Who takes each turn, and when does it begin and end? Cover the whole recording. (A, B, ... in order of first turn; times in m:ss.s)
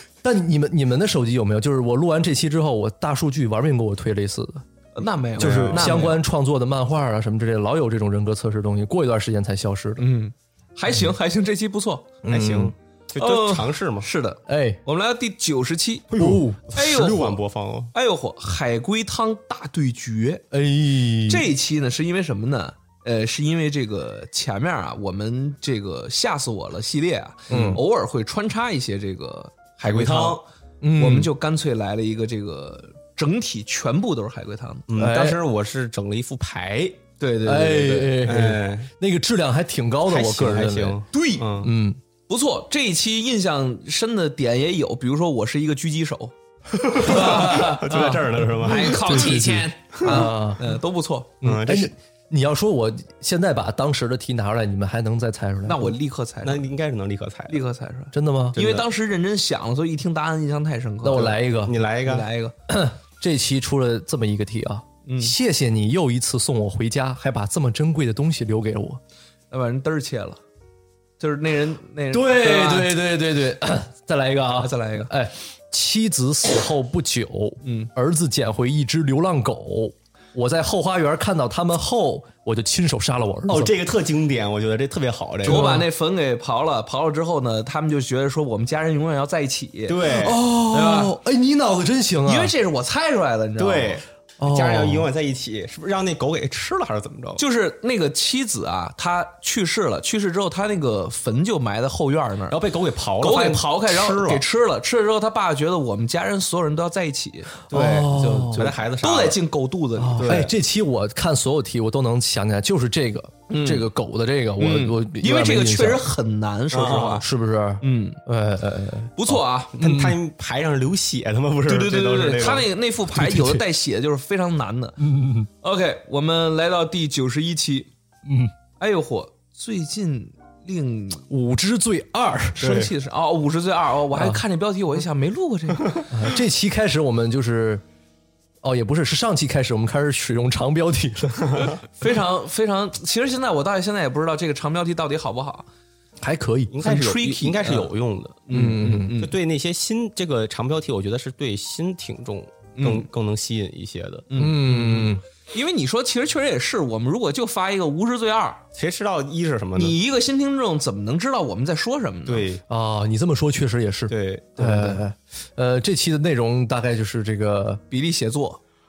0:00.2-0:04.6 A
0:04.9-0:06.2 B
0:05.4-0:06.0 C
0:05.4-0:10.0 A
0:10.0-0:12.1 B
0:12.2-0:12.7 A
0:12.3-0:14.1 C
0:13.2-0:16.1 B
0:14.5-0:14.8 A
0:16.1-0:17.9 C
0:16.2-0:16.6 A
0:16.7-0:17.4 B
0:17.9-0:20.4 B
0:20.5-0:21.5 A
0:21.3-0:30.4 B
0:27.5-0:27.8 A
0:29.8-0:30.4 C
0:30.8-0:31.3 A
0:31.0-0:34.9 B
0:34.9-0:37.0 C
0:34.9-0:35.4 A
0:37.2-0:38.3 B
0:37.4-0:41.0 A
0:38.2-0:38.9 C
0:40.1-0:41.7 C
0:41.1-0:41.6 B
0:41.6-0:42.0 A
0:42.3-0:51.4 B
0:46.8-0:49.4 C
0:47.0-0:50.6 A
0:50.0-0:50.3 C
0:51.4-0:51.9 C
0:51.4-0:55.9 A
0:55.6-0:56.7 B
0:56.4-0:57.6 C
0:57.5-1:01.4 B
0:58.1-0:58.6 A
0:58.6-0:58.8 C
1:01.0-1:01.8 A
1:01.1-1:02.3 C
1:02.0-1:02.5 B
1:02.7-1:09.0 A
1:05.0-1:05.3 B
1:09.5-1:10.4 B
1:11.2-1:13.0 B
1:12.1-1:23.7 A
1:14.6-1:15.1 B
1:17.6-1:17.9 B
1:23.5-1:25.7 C
1:25.4-1:30.1 B
1:25.4-1:25.9 A
1:29.9-1:31.1 C
1:30.1-1:32.5 A
1:32.2-1:34.0 B
1:33.6-1:37.4 C
1:34.4-1:35.1 A
1:37.4-1:42.6 B
1:42.5-1:44.4 C
1:43.2-1:50.5 B
1:47.7-1:49.4 C
1:47.7-1:48.7 A
1:50.0-1:56.1 A
1:50.2-1:50.5 C
1:53.5-1:53.9 B
1:54.6-1:57.2 B
1:56.7-1:57.2 C
1:57.2-2:00.2 A
1:57.8-1:58.2 B
1:59.2-1:59.8 B
1:59.7-2:02.7 C
2:01.7-2:05.0 B
2:03.1-2:03.6 A
2:05.0-2:05.5 A
2:05.6-2:07.9 B
2:08.2-2:08.5 A
2:08.8-2:11.3 B
2:11.3-2:12.8 A
2:12.6-2:16.1 B
2:12.6-2:12.9 C
2:14.1-2:14.4 A
2:16.1-2:17.8 A
2:18.6-2:21.7 A
2:21.9-2:25.7 B
2:26.2-2:26.7 A
2:26.7-2:28.5 C
2:26.8-2:27.9 B
2:28.5-2:29.3 B
2:28.5-2:29.2 A
2:29.1-2:34.3 C
2:32.8-2:33.1 B
2:34.3-2:38.6 B
2:34.4-2:35.2 A
2:38.7-2:40.0 C
2:39.8-2:42.5 B
2:42.2-2:42.6 C
2:42.7-2:47.8 A
2:44.1-2:44.8 C
2:44.6-2:45.0 B
2:47.9-2:48.6 B